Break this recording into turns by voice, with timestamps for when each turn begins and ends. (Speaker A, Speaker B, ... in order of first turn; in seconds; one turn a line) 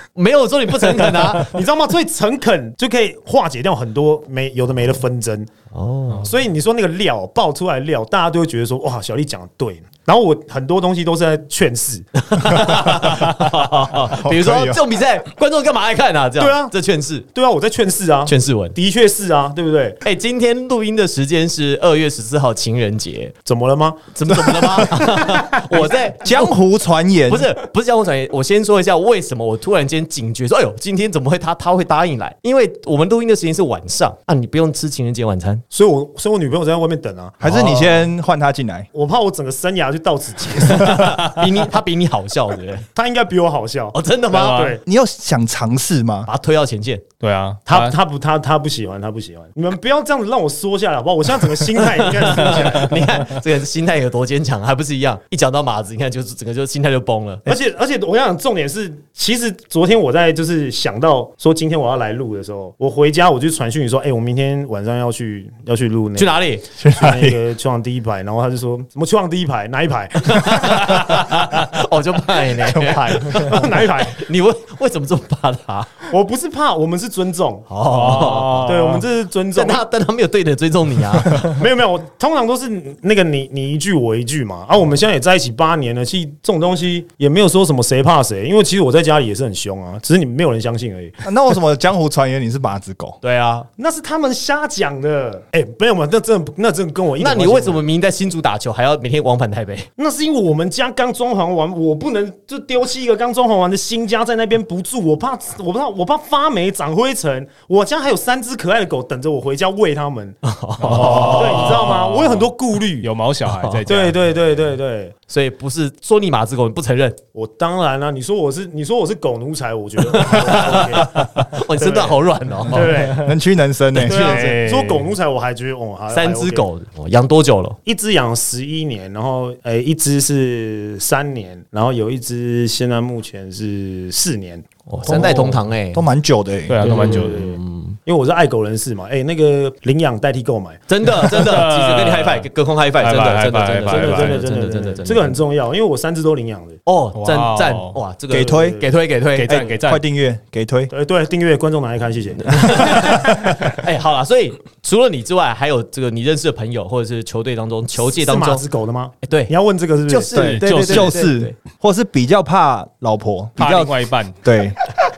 Speaker A: 0.1-1.5
Speaker B: 1.2-5.5
Speaker A: 5.7-6.3
Speaker B: 6.2-12.6
Speaker A: 12.2-17.2
Speaker C: 13.0-13.3
Speaker C: 13.9-14.8
Speaker B: 16.4-16.7
Speaker B: 17.3-20.0
Speaker A: 18.3-18.7
Speaker A: 20.0-23.3
Speaker B: 23.4-25.9
Speaker A: 24.1-26.5
Speaker C: 26.2-27.5
Speaker A: 27.3-35.6
Speaker B: 35.7-37.5
Speaker C: 37.4-38.9
Speaker A: 37.4-38.0
Speaker B: 38.9-41.1
Speaker A: 40.7-42.9
Speaker D: 41.0-41.4
Speaker B: 42.9-44.8
Speaker A: 43.9-44.8
Speaker D: 44.4-44.7
Speaker C: 44.8-46.3
Speaker A: 46.2-47.0
Speaker D: 47.2-47.9
Speaker B: 47.6-53.1
Speaker A: 51.8-57.5
Speaker B: 57.4-71.2
Speaker A: 66.2-66.6
Speaker C: 66.8-67.4
Speaker A: 70.4-76.0
Speaker C: 72.6-73.5
Speaker B: 73.3-74.2
Speaker B: 76.1-79.8
Speaker A: 77.7-78.7
Speaker D: 77.9-79.0
Speaker A: 79.5-81.5
Speaker B: 81.4-91.2
Speaker C: 91.2-93.2
Speaker A: 93.2-93.7
Speaker B: 93.8-97.8
Speaker A: 97.2-99.9
Speaker B: 100.0-113.1
Speaker A: 110.4-111.8
Speaker D: 110.8-114.2
Speaker A: 113.5-113.8
Speaker B: 113.9-115.1
Speaker A: 115.3-117.2
Speaker B: 117.3-122.2
Speaker A: 120.1-123.2
Speaker B: 122.7-123.2
Speaker C: 123.2-124.3
Speaker B: 124.0-126.6
Speaker D: 124.1-125.1
Speaker A: 126.1-127.8
Speaker B: 127.8-134.7
Speaker A: 134.9-136.1
Speaker D: 135.1-135.6
Speaker C: 135.9-136.8
Speaker D: 136.7-137.4
Speaker A: 136.8-138.0
Speaker B: 136.8-140.8
Speaker A: 140.9-145.4
Speaker D: 141.2-142.5
Speaker D: 143.0-144.4
Speaker B: 143.9-146.8
Speaker A: 146.8-149.6
Speaker D: 147.1-148.0
Speaker C: 148.3-148.8
Speaker B: 148.3-148.9
Speaker D: 149.3-150.0
Speaker C: 149.5-150.9
Speaker B: 150.9-153.5
Speaker A: 152.5-158.6
Speaker B: 157.9-160.3
Speaker A: 159.2-159.5
Speaker A: 160.1-161.5
Speaker C: 160.3-164.8
Speaker D: 160.3-161.2
Speaker D: 163.6-164.3